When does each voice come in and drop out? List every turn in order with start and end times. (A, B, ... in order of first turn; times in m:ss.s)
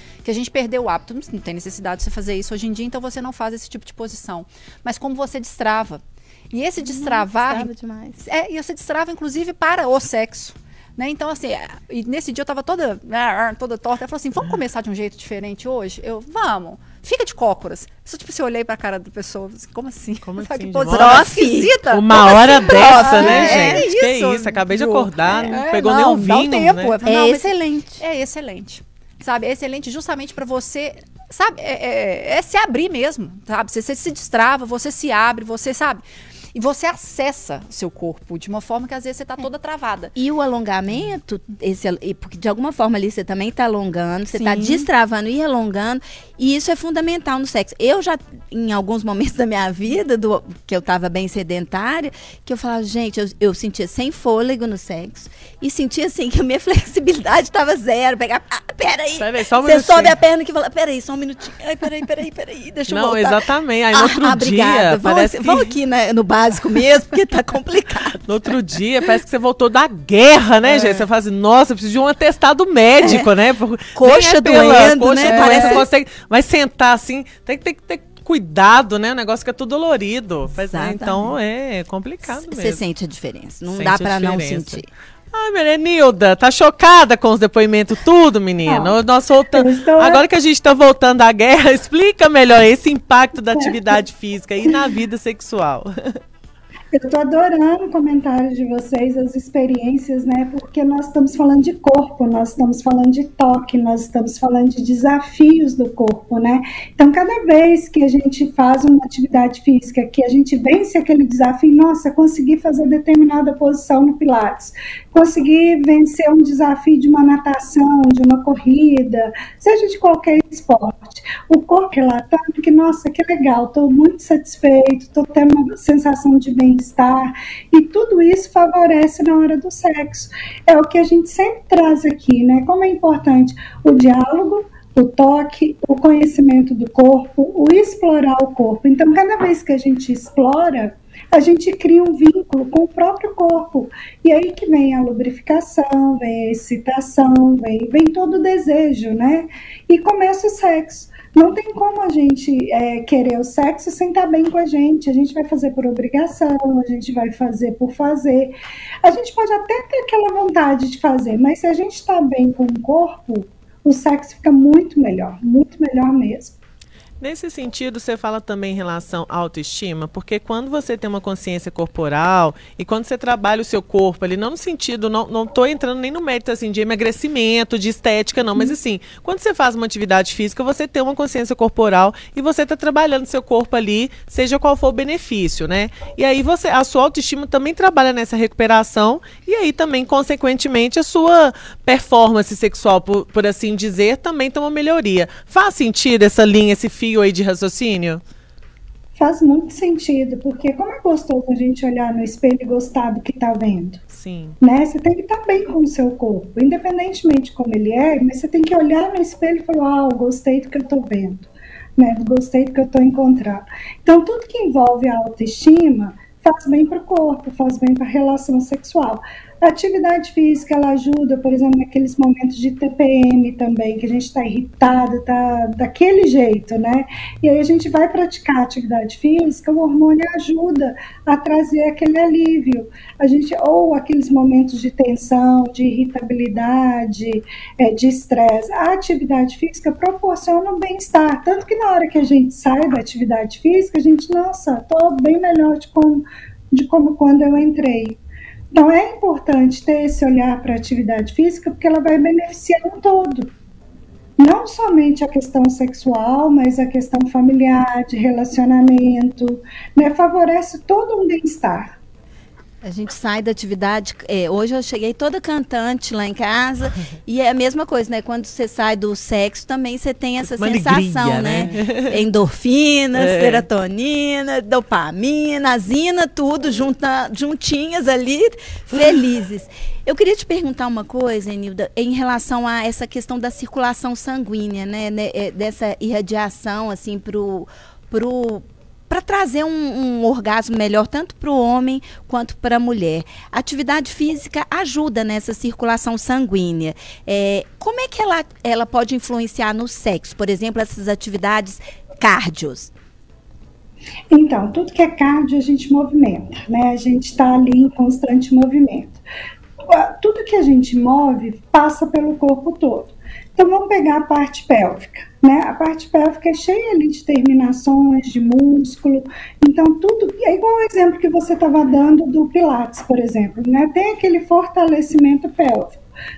0:00.2-0:07.7 A
0:06.8-0:08.2 B
0:08.2-0:40.1 A
0:20.2-0:21.3 C
0:20.9-0:23.9 B
0:21.9-0:27.0 C
0:27.0-0:28.0 B
0:40.1-1:03.4 B
0:44.3-0:44.9 A
0:59.2-1:00.2 C
1:02.9-1:05.7 C
1:03.9-1:08.4 B
1:08.2-1:22.8 C
1:10.6-1:11.0 B
1:13.0-1:13.3 B
1:13.9-1:15.9 B
1:15.2-1:15.9 A
1:20.5-1:21.4 B
1:22.2-1:24.9 B
1:23.7-1:36.2 C
1:28.6-1:29.0 D
1:29.5-1:30.2 D
1:33.5-1:33.8 D
1:36.9-2:46.6 D
2:47.2-3:18.2 C
3:19.2-3:24.0 D
3:24.1-3:24.6 C
3:24.6-4:08.2 D
4:08.7-4:13.5 D
4:14.4-4:21.9 D
4:22.8-5:02.9 B
4:30.4-4:32.2 C
4:33.1-4:33.6 C
5:04.3-5:09.2 D
5:09.9-5:26.0 D